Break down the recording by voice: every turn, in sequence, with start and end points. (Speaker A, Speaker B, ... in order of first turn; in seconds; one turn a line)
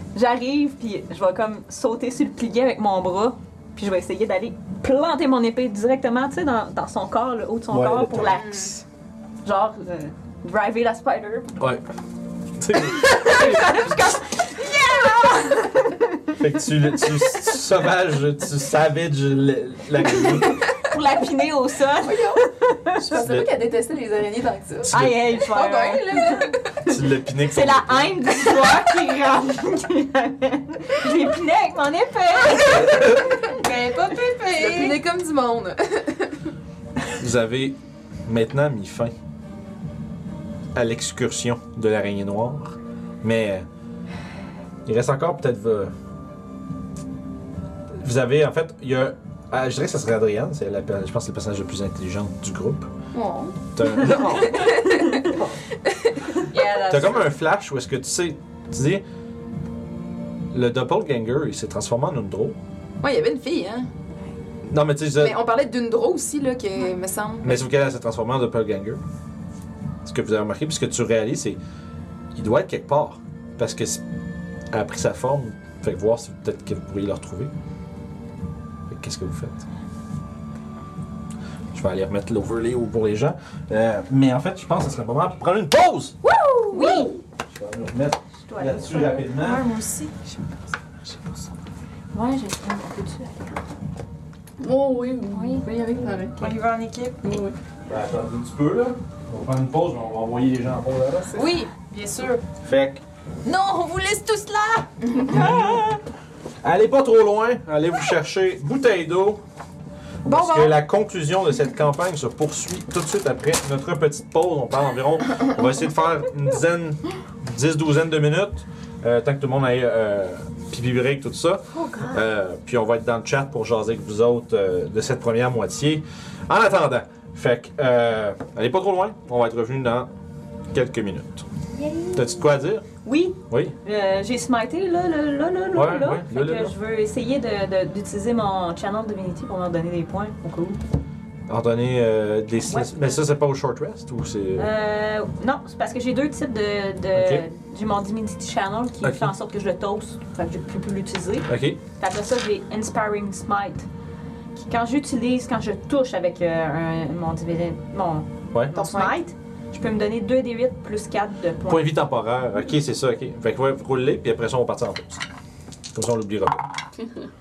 Speaker A: 0.1-8.8
Speaker B: 7.7-8.4
Speaker C: 8.3-8.8
Speaker A: 9.4-11.5
Speaker B: 12.6-14.0
Speaker A: 13.0-16.4
Speaker B: 16.4-20.6
Speaker A: 20.2-23.2
Speaker C: 22.0-26.6
Speaker B: 23.1-23.5
Speaker B: 24.9-25.2
Speaker A: 24.9-26.5
Speaker D: 25.6-26.5
Speaker B: 26.8-28.2
Speaker A: 27.4-33.2
Speaker B: 32.8-33.2
Speaker D: 33.5-35.0
Speaker C: 34.5-36.3
Speaker B: 37.2-39.1
Speaker B: 40.7-43.7
Speaker B: 44.9-45.9
Speaker B: 48.0-52.9
Speaker C: 53.1-55.3
Speaker B: 53.7-54.7
Speaker A: 54.0-55.3
Speaker D: 56.5-57.3
Speaker C: 56.5-56.9
Speaker B: 56.9-59.0
Speaker B: 60.5-62.6
Speaker C: 63.0-63.9
Speaker B: 64.7-65.5
Speaker C: 65.2-67.6
Speaker B: 67.4-69.0
Speaker B: 70.0-71.6
Speaker B: 72.3-74.0
Speaker B: 74.7-77.5
Speaker B: 78.9-79.6
Speaker B: 81.7-86.2
Speaker C: 86.2-87.1
Speaker A: 86.7-87.2
Speaker B: 87.5-89.6
Speaker A: 88.5-89.2
Speaker D: 89.2-91.4
Speaker A: 92.1-93.6
Speaker E: 94.6-96.5
Speaker A: 95.3-95.7
Speaker D: 96.4-97.4
Speaker E: 97.2-97.5
Speaker B: 97.9-101.4
Speaker D: 101.3-102.4
Speaker B: 102.6-103.0
Speaker D: 103.4-104.9
Speaker C: 105.0-105.3
Speaker B: 105.2-106.0
Speaker A: 105.3-105.8
Speaker B: 106.6-109.4
Speaker D: 110.2-110.8
Speaker B: 110.2-130.1
Speaker A: 121.7-122.2
Speaker B: 130.7-131.4
Speaker A: 131.7-140.8
Speaker B: 132.1-132.8
Speaker B: 133.5-133.8
Speaker B: 135.7-136.7
Speaker B: 141.5-144.7
Speaker A: 144.6-153.9
Speaker B: 147.1-147.4
Speaker B: 149.0-149.3
Speaker B: 151.5-151.8
Speaker A: 154.6-161.9
Speaker C: 158.7-159.2
Speaker B: 161.7-165.2
Speaker B: 165.9-166.6